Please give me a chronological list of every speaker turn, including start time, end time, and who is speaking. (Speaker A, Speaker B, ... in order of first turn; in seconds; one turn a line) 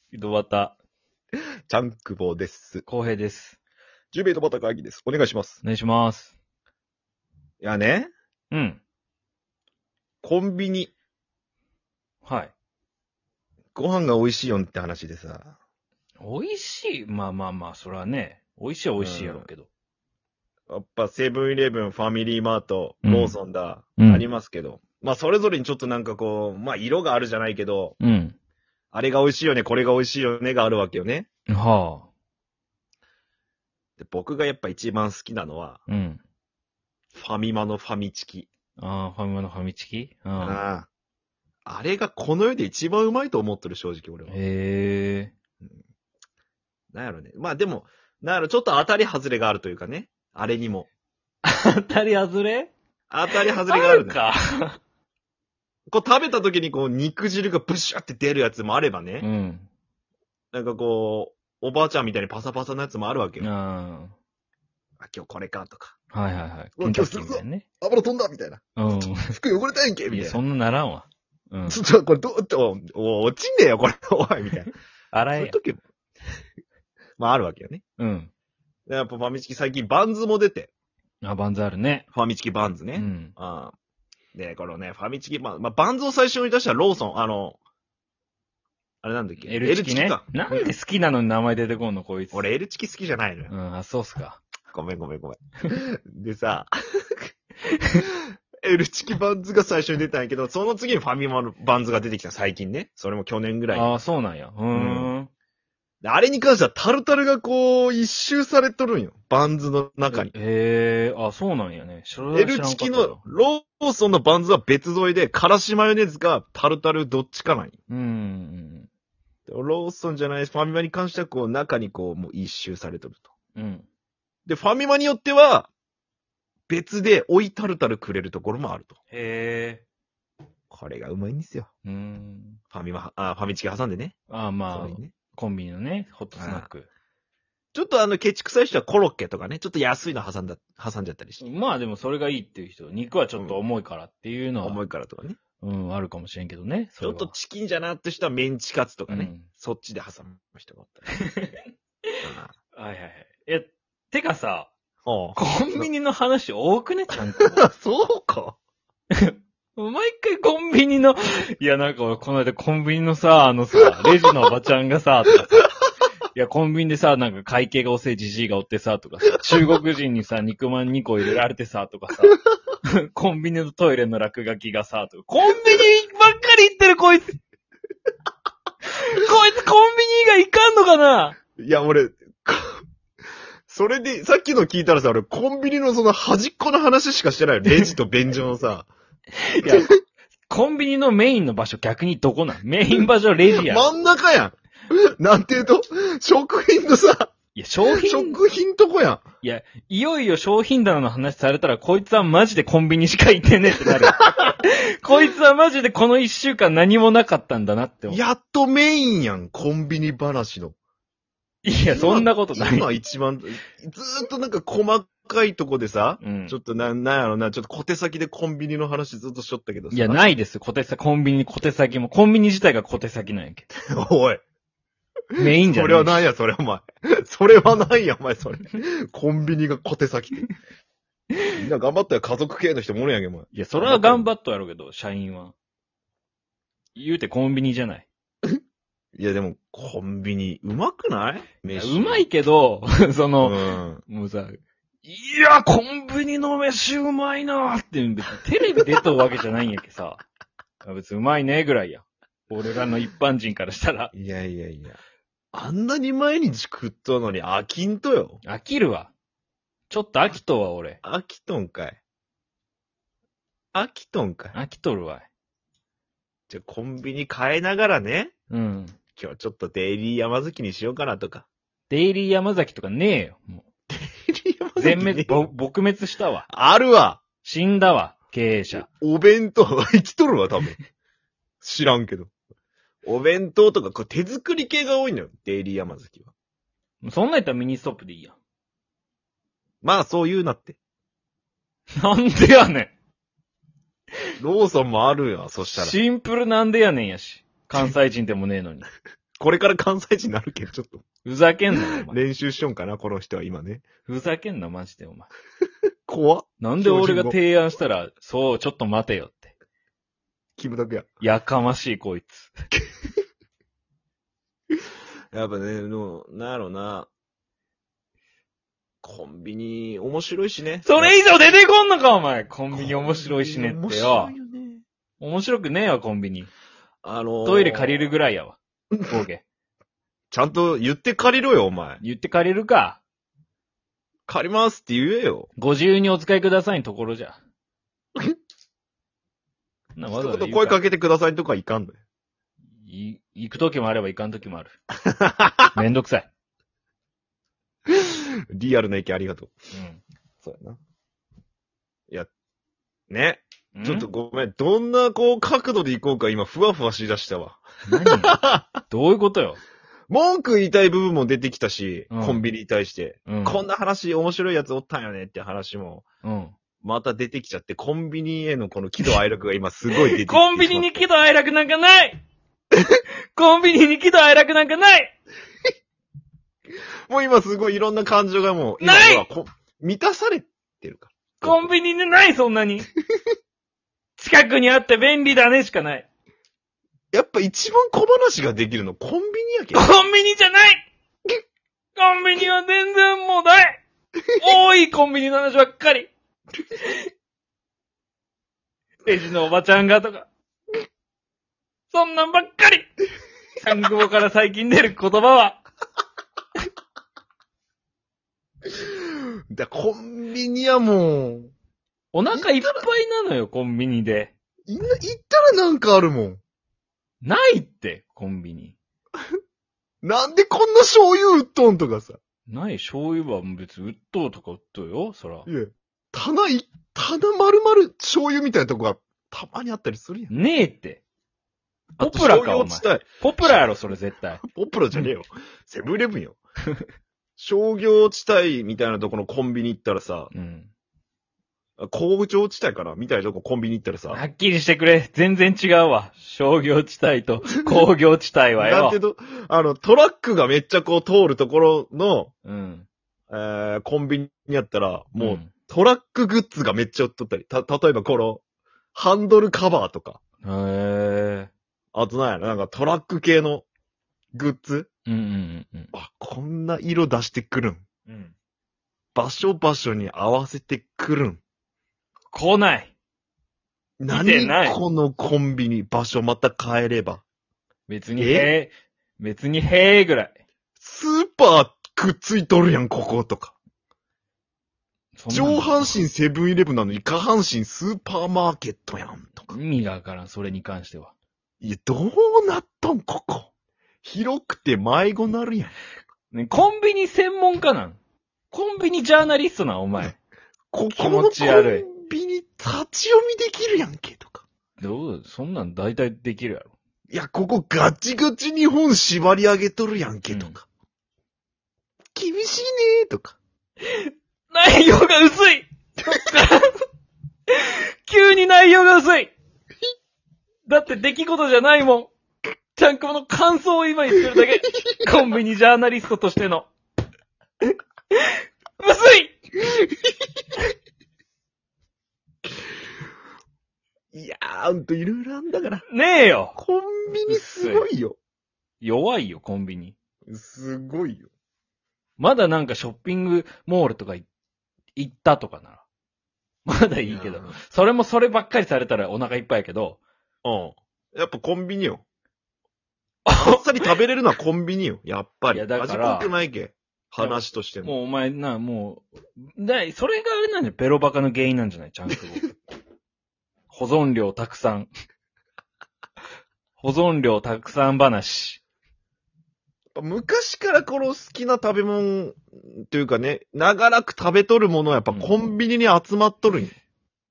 Speaker A: 0.1-0.8
Speaker B: 1.7-2.8
Speaker A: 2.9-3.6
Speaker B: 4.1-5.6
Speaker A: 5.6-6.3
Speaker B: 7.6-8.1
Speaker A: 8.5-8.8
Speaker B: 10.2-10.9
Speaker A: 12.2-12.5
Speaker B: 13.8-15.6
Speaker A: 16.2-19.7
Speaker B: 19.0-19.5
Speaker B: 20.7-27.9
Speaker A: 23.0-23.4
Speaker A: 24.0-24.2
Speaker A: 28.0-28.4
Speaker B: 28.9-31.3
Speaker A: 31.5-32.1
Speaker B: 34.0-35.8
Speaker A: 35.9-36.2
Speaker B: 37.1-38.5
Speaker A: 38.8-40.6
Speaker B: 40.4-40.9
Speaker B: 41.7-44.4
Speaker A: 44.3-45.3
Speaker B: 46.9-50.9
Speaker A: 51.4-52.7
Speaker B: 53.1-54.2
Speaker A: 53.3-54.8
Speaker B: 55.9-59.3
Speaker A: 59.2-59.7
Speaker B: 60.5-63.5
Speaker A: 63.4-64.1
Speaker B: 65.0-66.0
Speaker A: 66.1-67.7
Speaker B: 66.8-70.4
Speaker A: 68.8-69.3
Speaker A: 70.1-71.8
Speaker B: 71.7-74.7
Speaker A: 75.1-75.6
Speaker B: 75.3-75.8
Speaker B: 77.2-77.8
Speaker A: 78.0-78.3
Speaker B: 78.9-80.7
Speaker A: 81.2-82.1
Speaker B: 82.1-83.7
Speaker A: 82.9-83.3
Speaker B: 84.3-87.6
Speaker B: 89.0-90.7
Speaker A: 89.4-92.5
Speaker B: 92.3-93.5
Speaker A: 93.5-94.4
Speaker B: 94.7-97.2
Speaker A: 97.7-98.0
Speaker B: 98.6-103.9
Speaker A: 103.7-105.3
Speaker B: 104.7-105.1
Speaker B: 106.0-110.3
Speaker A: 110.1-113.2
Speaker B: 112.3-117.8
Speaker A: 117.9-118.9
Speaker B: 119.5-123.3
Speaker A: 123.5-123.9
Speaker B: 124.5-125.7
Speaker B: 126.7-129.0
Speaker A: 129.1-129.8
Speaker B: 130.7-131.7
Speaker A: 131.8-132.6
Speaker B: 132.7-135.1
Speaker A: 134.3-136.9
Speaker B: 136.3-136.7
Speaker B: 137.7-141.4
Speaker A: 141.4-144.8
Speaker B: 144.6-145.4
Speaker A: 145.6-147.3
Speaker B: 147.0-151.2
Speaker A: 149.1-149.5
Speaker A: 151.2-151.6
Speaker B: 152.2-152.5
Speaker A: 152.7-154.7
Speaker B: 155.1-155.9
Speaker A: 155.3-157.6
Speaker B: 157.4-158.6
Speaker A: 159.2-165.7
Speaker A: 166.3-177.4
Speaker A: 178.9-181.4
Speaker B: 181.6-182.8
Speaker B: 183.7-188.9
Speaker A: 189.4-189.9
Speaker B: 189.6-190.0
Speaker A: 190.5-193.9
Speaker B: 192.9-197.3
Speaker A: 197.6-198.4
Speaker B: 197.8-199.2
Speaker A: 199.4-208.2
Speaker B: 203.9-204.6
Speaker B: 208.1-210.8
Speaker A: 211.6-212.9
Speaker B: 211.9-220.3
Speaker A: 216.2-216.6
Speaker A: 219.9-223.7
Speaker B: 223.9-224.4
Speaker B: 225.3-230.5
Speaker A: 225.4-226.2
Speaker B: 231.5-234.3
Speaker A: 233.5-235.6
Speaker A: 236.9-238.1
Speaker B: 239.2-242.2
Speaker A: 241.7-250.2
Speaker B: 243.4-244.0
Speaker A: 250.8-254.1
Speaker B: 254.1-255.0
Speaker B: 255.5-258.4
Speaker A: 258.4-259.1
Speaker A: 259.9-261.0
Speaker B: 261.0-262.0
Speaker B: 263.7-264.6
Speaker A: 264.5-265.3
Speaker B: 266.5-268.3
Speaker A: 268.5-269.0
Speaker B: 269.1-271.5
Speaker A: 271.9-273.6
Speaker B: 273.9-275.4
Speaker A: 274.8-276.4
Speaker B: 276.5-277.2
Speaker A: 277.4-278.9
Speaker B: 278.7-280.8
Speaker B: 281.6-282.3
Speaker B: 283.0-286.3
Speaker A: 287.0-288.4
Speaker B: 289.8-290.8
Speaker A: 292.0-292.9
Speaker B: 294.4-295.9
Speaker A: 295.6-298.8
Speaker B: 299.4-301.0
Speaker A: 301.2-302.2
Speaker B: 301.7-303.8
Speaker A: 304.1-305.3
Speaker B: 306.1-307.4
Speaker A: 306.6-309.5
Speaker B: 310.6-311.1
Speaker A: 311.2-312.5
Speaker B: 315.3-317.1
Speaker B: 319.0-321.1
Speaker A: 320.8-324.3
Speaker B: 322.7-324.8
Speaker A: 325.2-326.5
Speaker B: 327.0-328.1
Speaker A: 327.4-329.4
Speaker B: 330.3-332.0
Speaker A: 332.0-333.0
Speaker B: 334.3-335.5
Speaker A: 335.6-337.4
Speaker A: 339.9-340.8
Speaker B: 340.1-342.0
Speaker A: 342.8-344.7
Speaker B: 345.1-345.8
Speaker A: 345.7-346.3
Speaker B: 347.9-349.6
Speaker A: 349.7-350.0
Speaker B: 350.4-350.8
Speaker B: 353.1-358.7
Speaker A: 353.7-354.1
Speaker A: 357.9-358.4
Speaker A: 358.9-359.6
Speaker B: 360.1-366.0
Speaker A: 362.1-362.4
Speaker A: 363.3-363.6
Speaker A: 366.2-366.5
Speaker B: 366.8-370.9
Speaker A: 369.9-372.2
Speaker A: 373.3-375.1
Speaker B: 377.1-381.7
Speaker A: 378.8-379.2
Speaker A: 381.4-382.9
Speaker A: 384.2-386.1
Speaker B: 387.1-389.9
Speaker A: 389.7-390.9
Speaker A: 391.9-393.8
Speaker A: 394.4-396.1
Speaker A: 399.0-400.3
Speaker A: 401.9-402.9
Speaker A: 403.6-405.6
Speaker B: 408.7-411.5
Speaker A: 412.1-414.3
Speaker B: 412.3-412.9
Speaker B: 414.6-416.4
Speaker A: 417.2-418.8
Speaker B: 420.0-422.2
Speaker A: 422.5-425.5
Speaker B: 425.4-430.3
Speaker A: 430.3-431.0
Speaker B: 432.0-433.6
Speaker A: 432.0-434.4
Speaker B: 434.4-436.4
Speaker B: 437.4-440.3
Speaker A: 440.3-440.7
Speaker B: 441.8-444.2
Speaker A: 444.1-449.0
Speaker B: 448.6-452.3
Speaker A: 452.4-452.9
Speaker B: 453.3-458.4
Speaker A: 455.2-455.5
Speaker B: 458.9-460.2
Speaker A: 460.4-461.5
Speaker B: 461.9-463.6
Speaker B: 464.3-464.9
Speaker A: 465.1-465.9
Speaker B: 465.9-467.8
Speaker A: 468.1-468.3
Speaker B: 469.1-471.4
Speaker A: 472.3-472.9
Speaker B: 474.0-477.2
Speaker A: 474.1-474.8
Speaker A: 477.9-480.4
Speaker B: 478.2-478.5
Speaker B: 480.8-483.6
Speaker A: 485.1-485.9
Speaker B: 485.3-489.5
Speaker A: 489.5-491.1
Speaker B: 491.6-493.5
Speaker B: 494.0-495.7
Speaker A: 496.3-498.0
Speaker A: 498.5-500.2
Speaker B: 500.7-504.4
Speaker A: 500.9-501.9
Speaker A: 504.8-506.7
Speaker B: 507.1-510.7
Speaker A: 510.3-510.6
Speaker B: 512.1-513.4
Speaker A: 513.8-516.7
Speaker A: 517.5-519.3
Speaker A: 520.7-522.1
Speaker A: 522.8-526.7
Speaker A: 528.8-529.4
Speaker B: 534.1-535.9
Speaker A: 535.9-536.6
Speaker B: 536.5-538.2
Speaker A: 537.3-537.9
Speaker A: 538.8-540.0
Speaker B: 540.3-541.3
Speaker A: 542.2-544.2
Speaker A: 545.0-545.8
Speaker A: 546.7-550.0
Speaker B: 547.1-547.6
Speaker B: 550.4-552.0
Speaker A: 553.2-553.9
Speaker B: 553.4-558.0
Speaker A: 555.5-556.3
Speaker A: 557.2-562.5
Speaker A: 563.7-564.9
Speaker A: 566.8-568.6
Speaker B: 570.0-576.8
Speaker A: 575.1-575.5